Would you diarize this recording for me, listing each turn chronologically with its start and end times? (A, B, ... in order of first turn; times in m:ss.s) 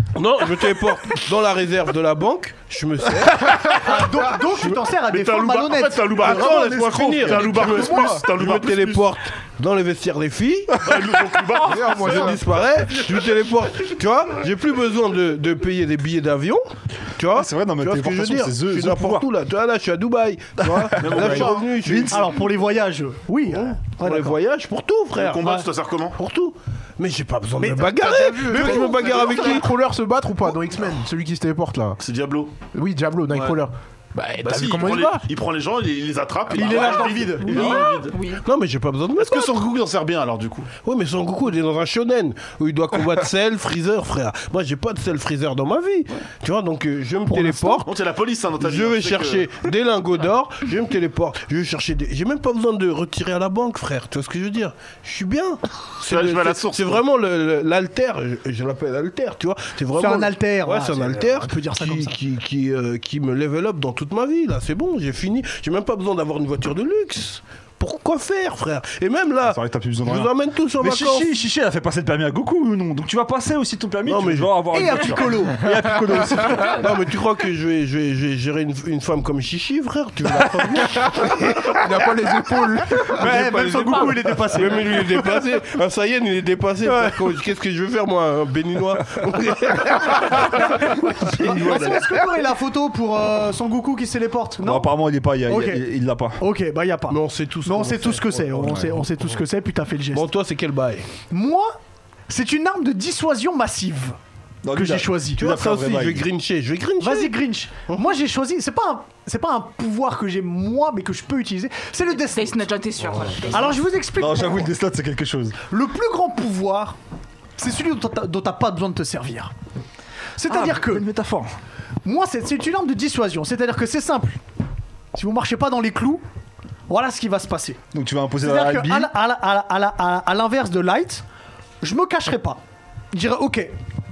0:00.1-0:04.0 A
0:03.7-0:06.2 B
0:05.0-0:09.1 C
0:06.2-0:10.9 A
0:07.7-0:08.2 D
0:10.8-0:12.4 C
0:11.6-0:11.9 E
0:11.6-0:12.5 D
0:12.0-0:22.2 A
0:17.3-0:19.3 F
0:20.6-0:22.4 F
0:21.0-0:21.8 C
0:22.1-0:24.4 B
0:23.5-0:25.4 A
0:25.2-0:26.2 C
0:26.2-0:29.7 A
0:27.6-0:29.5 B
0:28.0-0:32.0 D
0:32.0-0:32.5 C
0:32.7-0:35.2 D
0:34.4-0:38.2 C
0:36.5-0:37.8 B
0:37.4-0:38.4 E
0:38.4-0:39.6 A
0:39.2-0:40.7 C
0:40.8-0:47.9 A
0:47.3-0:47.8 B
0:47.8-0:49.5 C
0:48.6-1:11.3 A
0:56.0-0:57.0 C
0:59.9-1:02.2 B
1:09.4-1:16.9 F
1:14.0-1:14.5 A
1:14.7-1:15.6 B
1:16.6-1:21.8 A
1:21.6-1:24.3 D
1:23.1-1:25.3 B
1:23.2-1:31.9 A
1:26.8-1:27.2 B
1:31.2-1:34.9 B
1:31.5-1:32.0 C
1:34.6-1:36.4 F
1:35.4-1:35.8 B
1:36.4-1:40.3 B
1:37.1-1:39.0 A
1:38.6-1:38.9 F
1:40.1-1:41.1 A
1:41.3-1:41.8 B
1:42.3-1:44.2 B
1:44.6-1:46.2 F
1:44.7-1:45.4 B
1:45.4-1:47.4 A
1:47.0-1:52.6 B
1:52.3-1:53.8 E
1:53.5-1:54.7 B
1:54.1-1:55.6 F
1:55.7-1:57.0 B
1:57.6-1:59.5 B
2:00.4-2:01.1 B
2:00.5-2:01.5 F
2:02.0-2:04.4 B
2:05.1-2:06.2 B
2:06.9-2:07.8 B
2:07.9-2:09.1 F
2:08.4-2:11.2 B
2:11.8-2:12.6 B
2:13.1-2:13.7 B